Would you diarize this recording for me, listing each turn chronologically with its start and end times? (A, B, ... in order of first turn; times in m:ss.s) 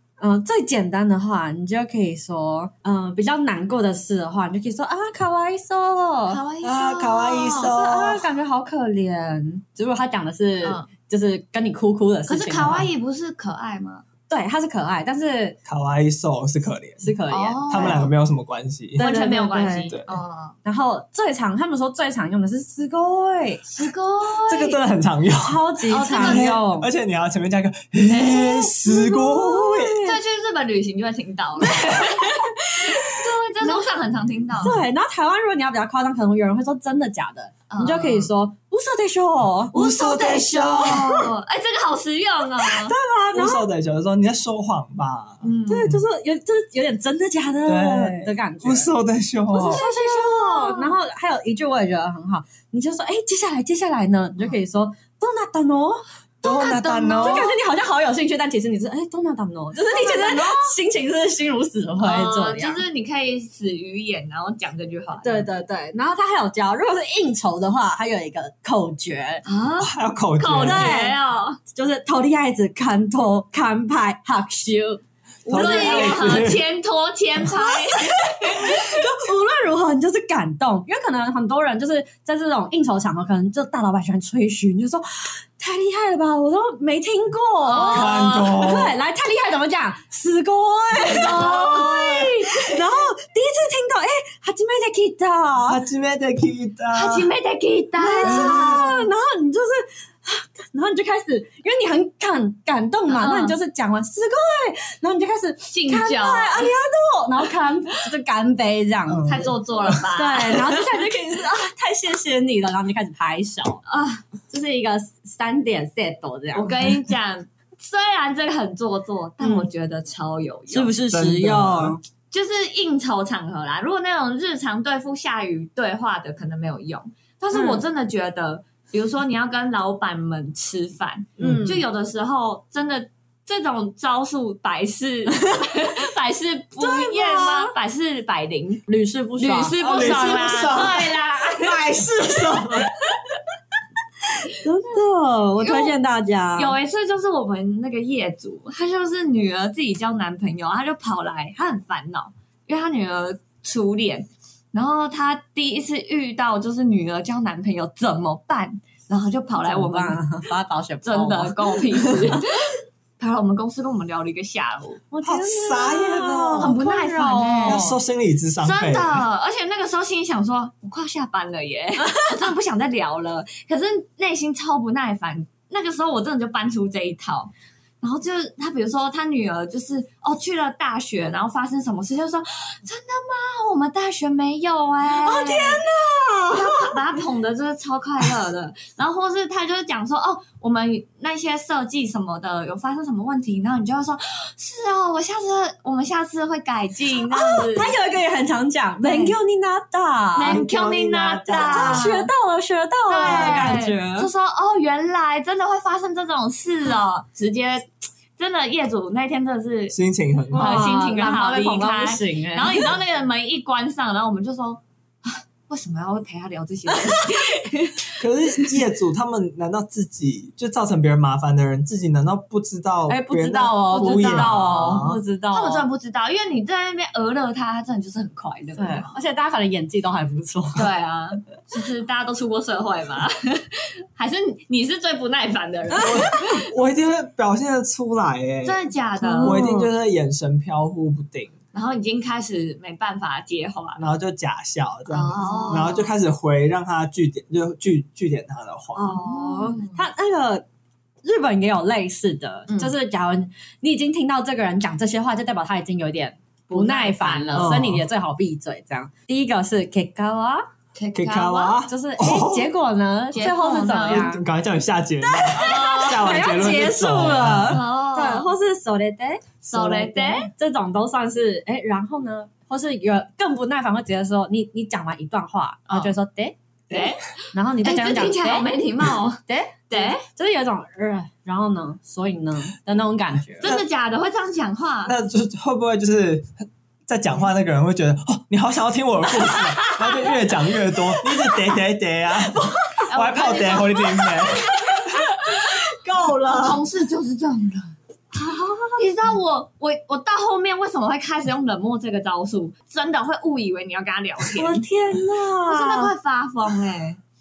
0:00.2-0:06.4 A
0:06.3-0:07.7 B
0:06.6-0:08.3 C
0:07.6-0:12.9 A
0:12.3-0:14.0 B
0:14.3-0:15.6 A
0:15.7-0:17.1 C
0:17.0-0:18.1 A
0:17.3-0:18.1 B
0:17.7-0:19.0 C
0:19.0-0:19.9 A
0:19.0-0:20.6 B
0:19.9-0:20.1 C
0:20.6-0:23.8 A
0:23.7-0:24.8 B
0:24.5-0:25.6 C
0:25.4-0:26.9 A
0:25.9-0:26.6 B
0:26.1-0:30.0 C
0:28.1-0:30.2 A
0:30.0-0:34.8 B
0:34.6-0:39.8 A
0:37.7-0:38.3 B
0:39.7-0:41.2 C
0:39.7-0:42.9 B
0:40.8-0:41.1 A
0:42.6-0:43.7 A
0:43.3-0:46.0 C
0:45.4-0:45.9 B
0:45.7-0:48.9 A
0:47.7-0:49.8 C
0:49.5-0:51.0 B
0:49.5-1:02.8 A
0:56.4-0:57.5 C
0:56.4-0:57.6 B
0:59.8-1:00.7 B
1:02.0-1:05.5 B
1:05.2-1:09.4 A
1:09.4-1:11.6 B
1:09.8-1:11.0 C
1:10.6-1:16.3 A
1:15.5-1:16.6 C
1:15.5-1:19.0 B
1:17.4-1:35.8 A
1:27.6-1:28.6 B
1:27.8-1:29.0 C
1:31.0-1:32.8 B
1:31.5-1:31.9 C
1:35.6-1:37.3 C
1:36.9-1:38.9 B
1:38.0-1:49.4 A
1:38.2-1:39.0 C
1:43.1-1:43.6 B
1:45.7-1:46.7 B
1:49.1-1:50.0 C
1:49.2-1:50.6 B
1:50.1-1:53.8 A
1:53.9-1:54.2 B
1:54.5-1:57.0 A
1:56.5-2:01.0 B
1:59.4-1:59.7 A
2:00.7-2:02.0 A
2:01.1-2:02.0 C
2:02.3-2:18.8 B
2:07.5-2:07.8 A
2:11.4-2:11.7 C
2:11.4-2:11.8 A
2:16.8-2:17.7 A
2:18.9-2:20.7 A
2:19.4-2:21.8 B
2:19.8-2:22.9 C
2:21.7-2:22.7 A
2:24.5-2:26.8 A
2:25.6-2:26.0 B
2:26.6-2:40.2 B
2:39.6-2:42.4 A
2:41.0-2:45.0 B
2:45.1-2:48.0 A
2:45.2-2:46.8 C
2:46.6-2:47.8 B
2:47.6-2:49.2 C
2:48.6-3:05.8 B
3:05.2-3:07.0 A
3:06.5-3:17.9 B
3:17.2-3:20.6 A
3:19.0-3:19.4 B
3:20.4-3:22.3 B
3:20.5-3:22.1 C
3:21.5-3:24.3 A
3:23.1-3:30.0 B
3:23.2-3:23.7 C
3:29.9-3:30.8 C
3:30.5-3:32.9 A
3:30.5-3:38.1 B
3:38.2-3:45.2 C
3:43.1-3:45.9 A
3:43.9-3:49.1 B
3:48.8-3:50.9 A
3:50.8-3:56.4 B
3:56.0-3:56.4 A
3:56.0-3:58.8 C
3:58.6-3:59.6 B
3:59.2-3:59.9 A
3:59.4-4:01.5 C
4:01.7-4:04.0 B
4:04.0-4:09.2 C
4:05.1-4:06.1 B
4:05.4-4:05.9 A
4:09.0-4:10.6 A
4:09.1-4:10.0 B
4:11.2-4:20.6 A
4:12.7-4:12.9 B
4:16.7-4:17.8 B
4:17.6-4:18.0 C
4:21.0-4:21.8 B
4:21.1-4:22.7 C
4:21.9-4:24.4 A
4:23.3-4:24.3 B
4:24.1-4:27.8 C
4:25.2-4:36.6 A
4:25.5-4:26.4 B
4:27.7-4:28.5 B
4:29.7-4:30.5 B
4:35.9-4:36.1 B
4:36.9-4:40.2 B
4:37.5-4:38.7 A
4:39.5-4:43.7 A
4:43.6-4:45.1 B
4:45.1-4:46.5 C
4:47.1-4:55.2 C
4:49.8-4:50.3 B
4:53.0-4:55.8 B
4:55.5-4:56.7 A
4:56.0-4:56.4 C
4:56.5-4:57.9 B
4:58.3-4:59.1 A
4:59.0-5:04.9 B
5:04.5-5:06.1 A
5:05.7-5:07.2 B